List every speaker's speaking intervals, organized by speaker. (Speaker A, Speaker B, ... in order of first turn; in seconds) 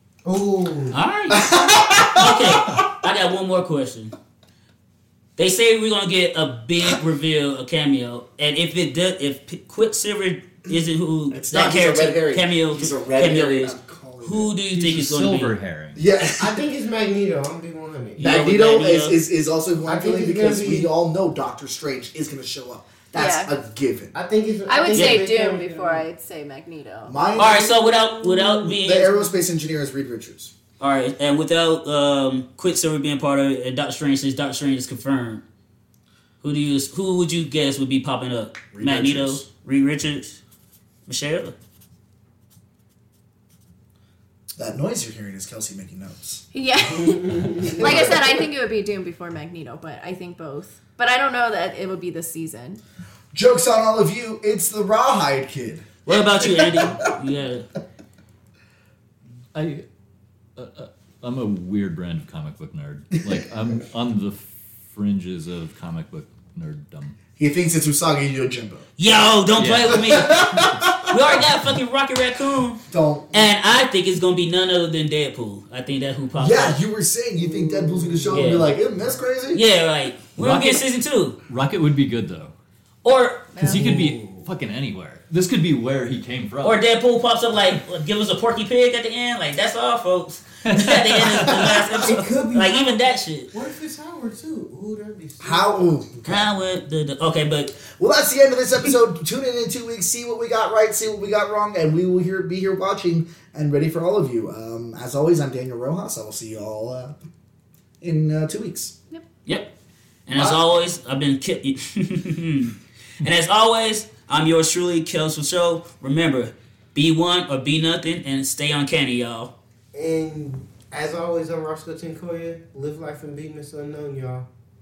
Speaker A: 0.2-1.0, 16.4-18.3, 19.9-20.9, 24.1-26.1, 47.0-48.0, 77.4-78.6, 83.7-84.4, 92.0-96.0, 119.9-124.5
Speaker B: 0.9-4.1, 5.4-15.6, 18.2-19.2, 24.9-25.2, 27.4-29.3, 30.8-35.4, 36.4-40.4, 41.1-41.5, 56.1-57.7, 69.0-72.8, 73.3-76.8, 78.3-78.7, 79.5-81.4, 83.0-83.6, 86.6-93.5, 96.3-97.8, 110.3-119.5
Speaker C: 1.3-2.8, 11.3-14.5, 16.0-16.6, 18.2-24.1, 27.1-27.9, 28.7-30.5, 38.7-39.5, 44.6-46.5, 47.6-48.5, 53.3-55.9, 56.4-57.0, 67.3-68.9, 69.9-71.2, 72.9-73.5, 76.4-79.6, 91.7-92.0, 95.4-96.5, 97.8-107.2, 108.0-108.9
Speaker D: 14.7-16.0, 59.5-59.9, 60.6-67.2, 69.5-70.0, 80.4-80.8, 81.5-82.5, 83.6-86.8, 90.7-91.7
Speaker E: 23.1-23.5, 24.7-27.1, 46.5-52.8, 83.5-83.8